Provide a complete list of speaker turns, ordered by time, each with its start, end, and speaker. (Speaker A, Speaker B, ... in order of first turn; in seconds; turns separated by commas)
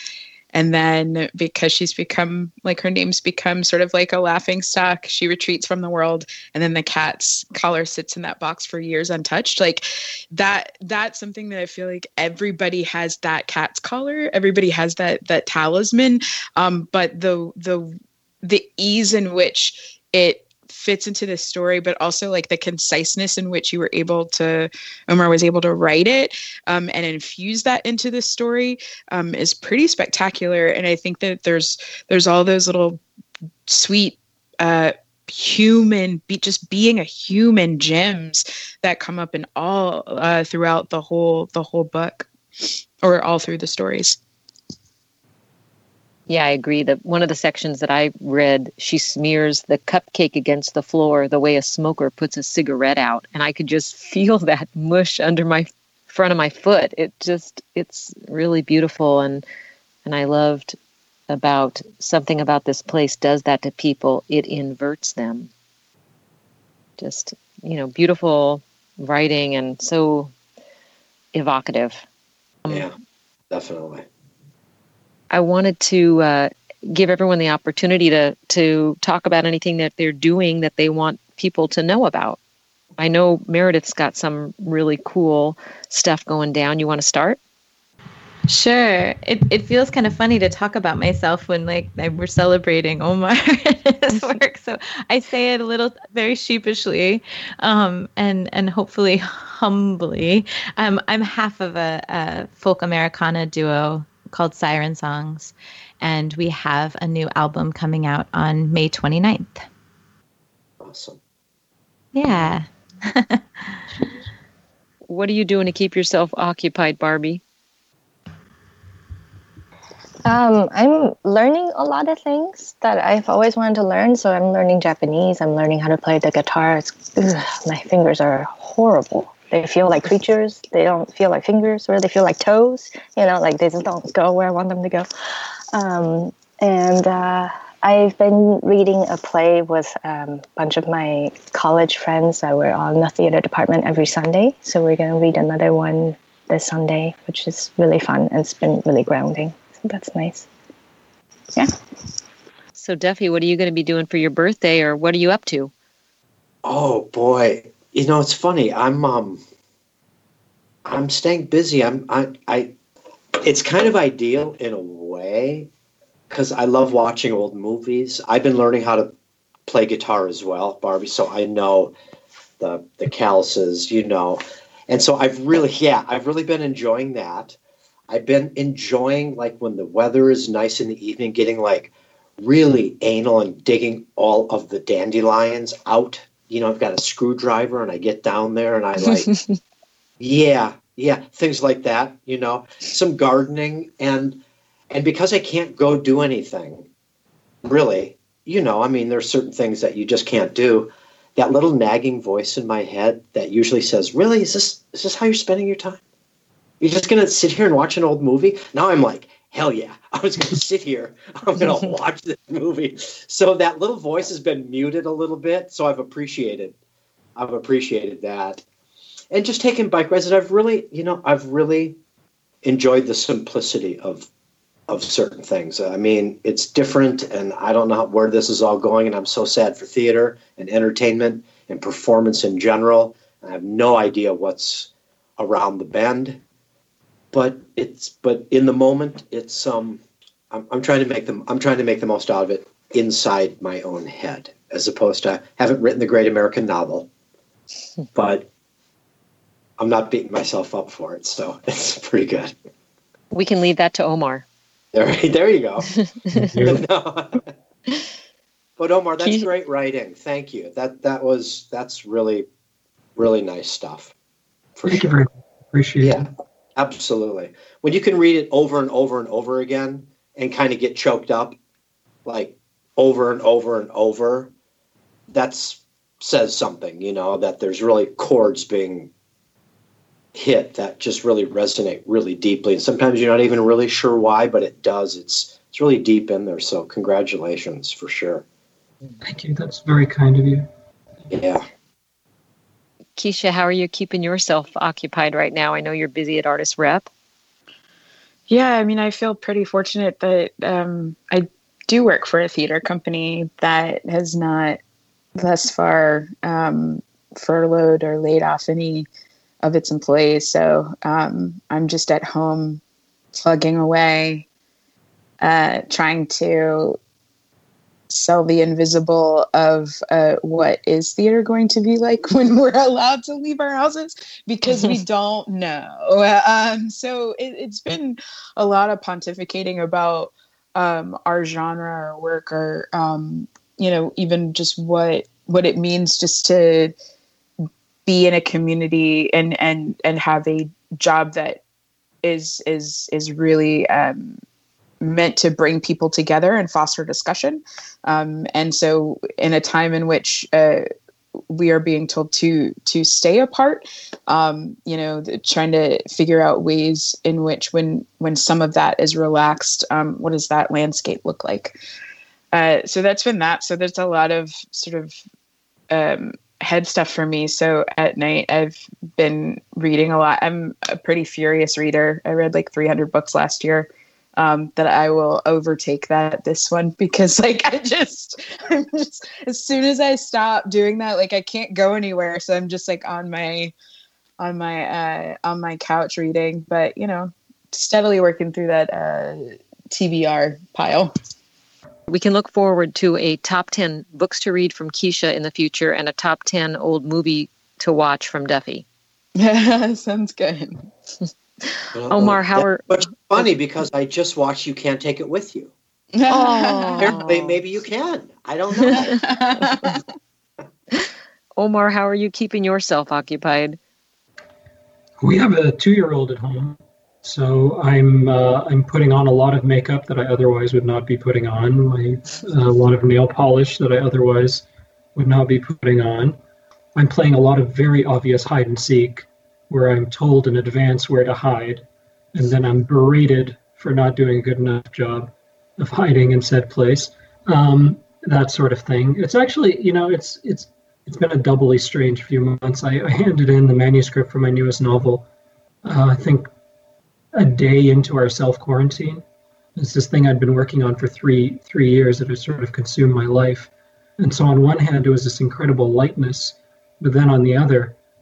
Speaker A: 0.5-33.0, Speaker A: 33.7-44.2, Speaker B: 46.3-59.5, Speaker B: 60.0-60.8, Speaker B: 61.3-65.5, Speaker B: 67.0-70.3, Speaker B: 71.3-72.0, Speaker C: 73.5-74.0, Speaker B: 75.3-82.4, Speaker B: 83.0-87.4, Speaker D: 88.5-109.7, Speaker C: 110.8-111.2, Speaker D: 112.1-113.8, Speaker B: 115.1-117.4, Speaker E: 120.2-135.1, Speaker E: 135.7-150.5, Speaker B: 152.8-155.7, Speaker C: 156.6-159.4, Speaker C: 160.9-162.8, Speaker C: 163.4-165.7, Speaker C: 166.3-169.1, Speaker C: 169.7-171.9, Speaker C: 172.6-177.6, Speaker C: 178.1-189.3, Speaker B: 189.1-189.6, Speaker C: 190.2-194.4, Speaker C: 194.9-196.9, Speaker C: 197.6-206.0, Speaker C: 206.8-216.8, Speaker C: 217.4-218.6, Speaker C: 219.3-222.0, Speaker C: 222.6-224.3, Speaker C: 224.9-236.4, Speaker C: 237.3-247.1, Speaker C: 248.2-248.5, Speaker C: 249.8-252.6, Speaker B: 253.3-254.5, Speaker C: 254.9-255.9, Speaker B: 256.0-256.5, Speaker F: 256.3-256.8, Speaker C: 256.6-257.4, Speaker C: 258.8-262.5, Speaker B: 259.2-259.5, Speaker C: 263.2-264.1, Speaker C: 264.8-265.1, Speaker F: 264.9-266.3, Speaker C: 266.0-271.6, Speaker C: 272.2-274.5, Speaker C: 275.3-279.1, Speaker C: 280.3-288.4, Speaker F: 289.2-290.7, Speaker C: 291.3-291.6, Speaker B: 293.2-297.1, Speaker A: 298.5-304.8, Speaker A: 305.4-309.1, Speaker A: 309.6-312.8, Speaker A: 313.3-314.5, Speaker A: 315.4-317.0, Speaker A: 318.1-336.9, Speaker B: 324.7-324.9, Speaker A: 338.1-341.6, Speaker A: 342.2-344.4, Speaker A: 345.0-350.9, Speaker A: 351.5-361.8, Speaker A: 362.5-365.2, Speaker A: 365.9-383.7, Speaker A: 384.4-391.1, Speaker B: 392.1-398.9, Speaker A: 399.4-400.9, Speaker C: 401.9-405.7, Speaker B: 402.1-403.0, Speaker A: 406.1-407.1, Speaker B: 406.3-407.6, Speaker C: 407.0-409.2, Speaker A: 408.9-410.0, Speaker B: 411.6-413.8, Speaker F: 415.2-426.4, Speaker F: 426.9-445.3, Speaker F: 445.8-446.5, Speaker F: 447.3-449.2, Speaker F: 449.8-458.0